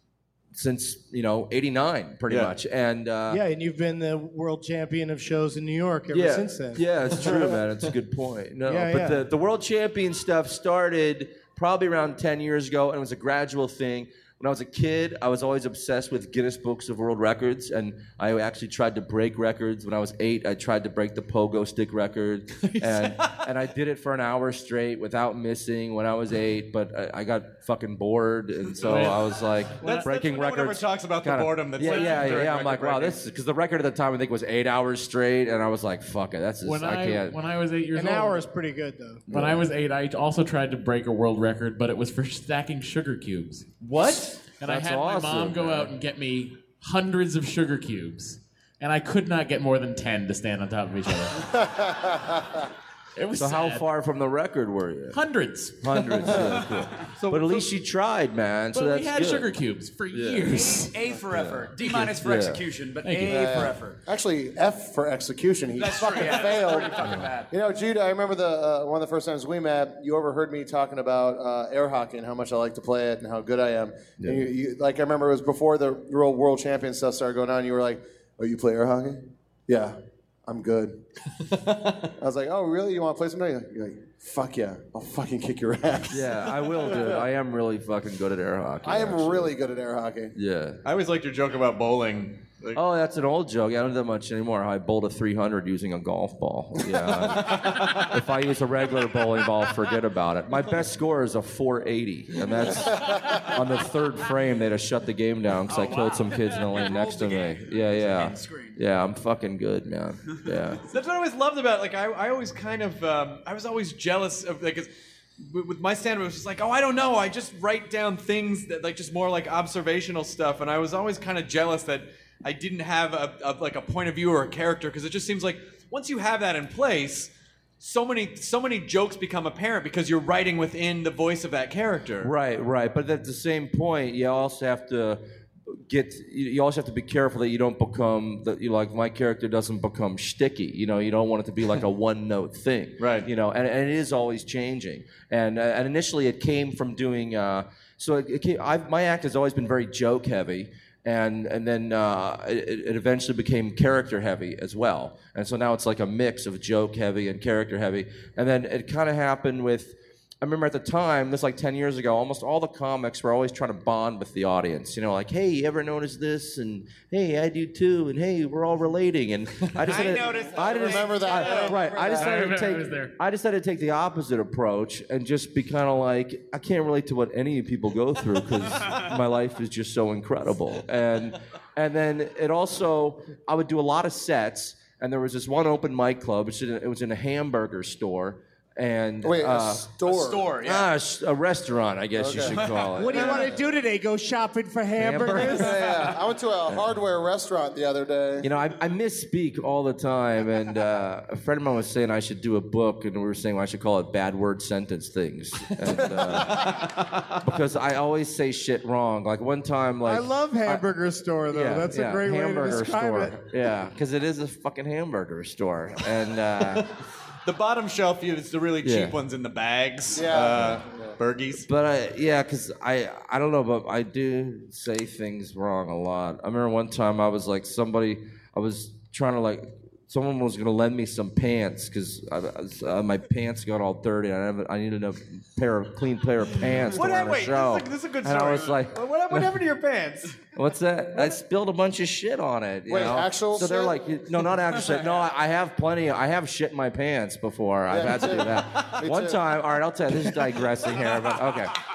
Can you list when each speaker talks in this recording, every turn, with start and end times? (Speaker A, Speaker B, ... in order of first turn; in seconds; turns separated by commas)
Speaker A: 0.5-3.4, Speaker B: 3.3-7.6, Speaker A: 6.1-37.4, Speaker B: 8.7-9.2, Speaker C: 22.6-23.4, Speaker D: 28.8-29.3, Speaker B: 29.8-30.1, Speaker C: 29.8-33.2, Speaker D: 36.6-38.4, Speaker B: 37.9-39.3, Speaker A: 39.3-39.6, Speaker D: 39.3-51.7, Speaker A: 44.6-45.9, Speaker D: 53.2-53.9, Speaker A: 53.4-55.2, Speaker D: 55.1-56.5, Speaker A: 55.8-59.5, Speaker D: 58.7-60.9, Speaker A: 60.1-62.6, Speaker E: 60.5-64.0, Speaker D: 63.0-63.7, Speaker F: 63.3-81.0, Speaker E: 65.8-67.5, Speaker A: 74.2-74.5, Speaker F: 82.2-87.2, Speaker A: 86.1-89.5, Speaker F: 88.8-90.3, Speaker A: 90.3-90.8, Speaker C: 90.8-92.8, Speaker A: 92.8-110.8, Speaker C: 97.5-98.1, Speaker E: 105.7-108.8, Speaker C: 110.9-132.3, Speaker A: 132.2-135.2, Speaker A: 135.7-190.0, Speaker C: 143.0-143.3, Speaker E: 169.8-171.9, Speaker C: 169.9-170.4, Speaker F: 169.9-172.4, Speaker C: 171.1-171.7, Speaker D: 172.2-173.2, Speaker F: 189.2-190.5, Speaker E: 190.0-190.9, Speaker A: 190.6-193.5, Speaker F: 192.2-193.6, Speaker E: 192.4-192.9, Speaker B: 193.0-195.8, Speaker A: 195.0-195.9, Speaker F: 195.3-198.5, Speaker A: 198.4-206.8, Speaker F: 205.9-206.6, Speaker C: 206.5-207.0, Speaker A: 207.4-210.9, Speaker B: 210.0-213.3, Speaker A: 211.5-216.8, Speaker C: 217.4-221.7, Speaker A: 218.8-219.2, Speaker F: 220.1-221.2, Speaker A: 221.6-239.6, Speaker C: 236.9-240.4, Speaker A: 240.6-251.8, Speaker F: 242.9-244.0, Speaker F: 247.9-249.4